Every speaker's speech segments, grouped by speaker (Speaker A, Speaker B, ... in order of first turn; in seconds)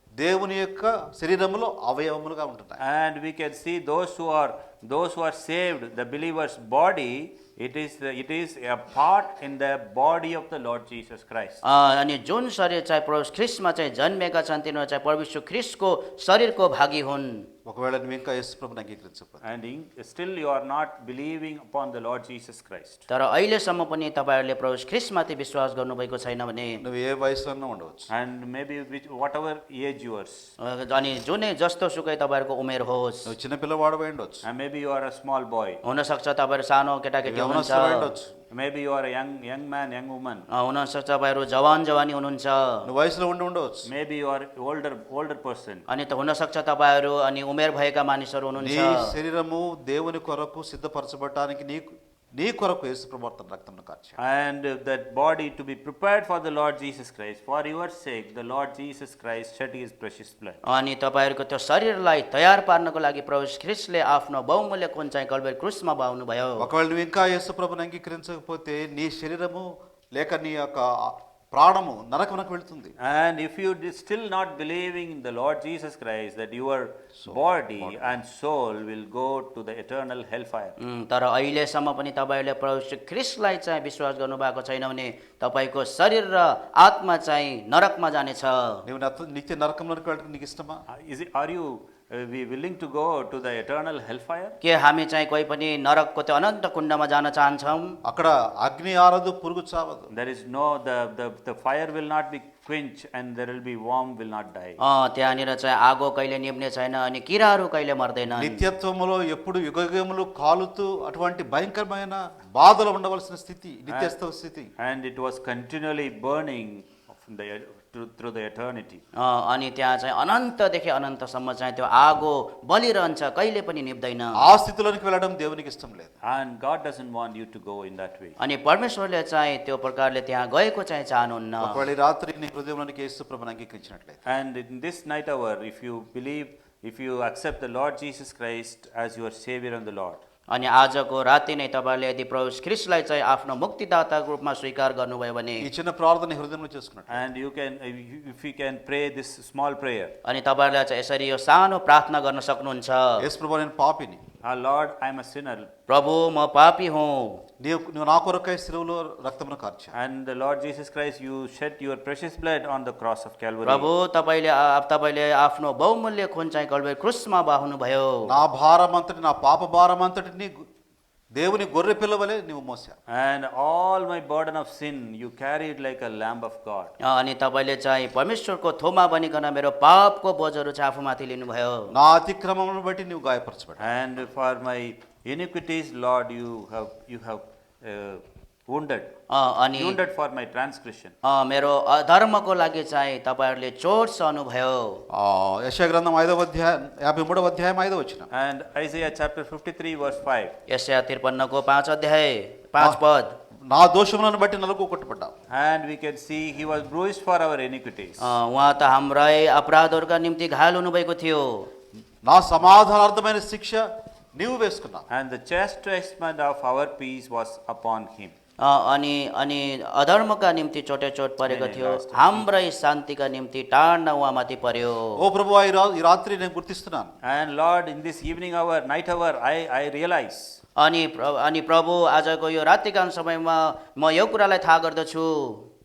Speaker A: 0.2-2.8, 17.7-19.4, 26.8-28.1, 33.3-34.4, 37.2-38.3, 42.9-43.9, 48.6-54.2, 66.6-72.9, 77.2-78.2, 88.9-90.8, 98.0-100.1, 108.3-114.7, 124.4-126.1, 131.6-134.2, 145.6-147.2, 153.2-154.2, 157.6-159.9, 168.3-170.7, 171.3-173.0, 181.9-183.9, 195.1-198.3, 203.7-205.3, 212.2-215.1, 225.2-227.1
Speaker B: 2.8-11.6, 19.4-23.1, 28.1-30.5, 34.4-35.8, 38.5-40.5, 43.9-45.9, 54.2-60.6, 73.0-80.8, 90.9-94.6, 100.1-104.8, 113.9-114.2, 114.8-119.0, 126.2-128.4, 134.3-140.2, 147.1-150.1, 154.4-155.7, 159.9-163.9, 173.1-176.9, 183.8-189.1, 189.8-191.2, 198.3-200.5, 205.5-208.4, 215.1-218.3, 221.4-222.5, 227.2-230.6
Speaker C: 11.6-17.5, 23.1-26.8, 30.6-33.3, 35.8-38.1, 40.5-42.9, 45.9-49.1, 60.6-66.7, 80.8-88.8, 94.6-98.0, 104.8-108.7, 119.2-124.5, 128.4-131.8, 140.5-145.7, 150.2-153.2, 155.9-157.4, 163.6-168.3, 177.0-181.9, 189.3-190.0, 191.2-195.0, 200.7-203.4, 208.2-211.7, 218.6-225.2, 230.8-235.7